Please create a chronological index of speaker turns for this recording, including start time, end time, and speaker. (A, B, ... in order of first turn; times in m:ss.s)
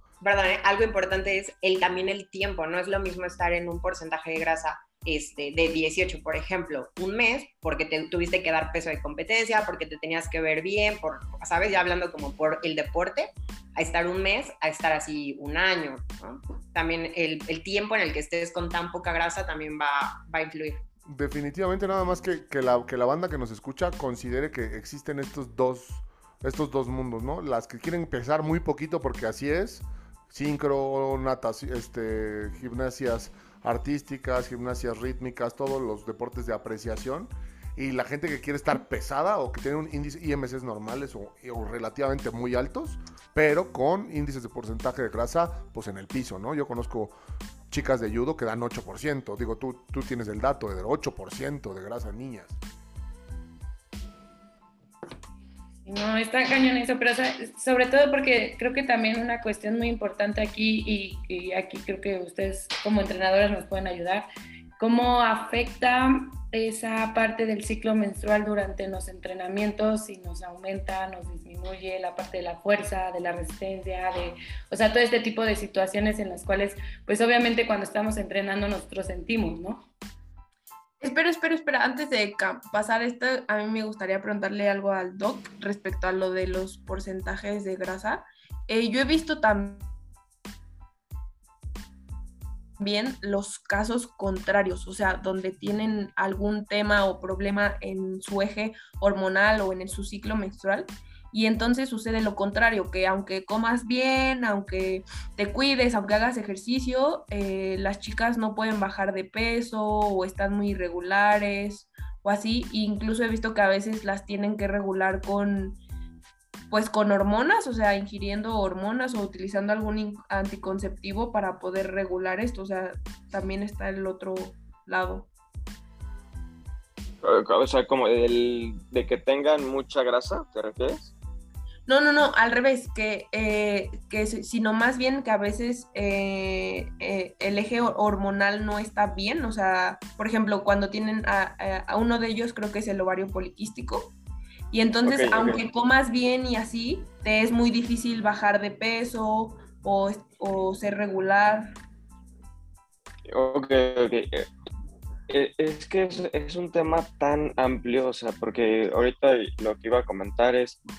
0:00.2-0:20.8 A
0:21.1-0:47.1 B
0:47.7-0:52.6 B
0:55.8-1:04.2 C
1:04.8-1:19.9 C
1:21.0-1:29.9 D
1:32.8-1:55.8 D
1:56.7-2:05.3 D
2:07.2-2:11.1 E
2:11.9-2:24.1 D
2:24.7-2:31.8 D
2:25.0-2:25.6 E
2:33.3-2:34.5 E
2:35.3-2:40.8 E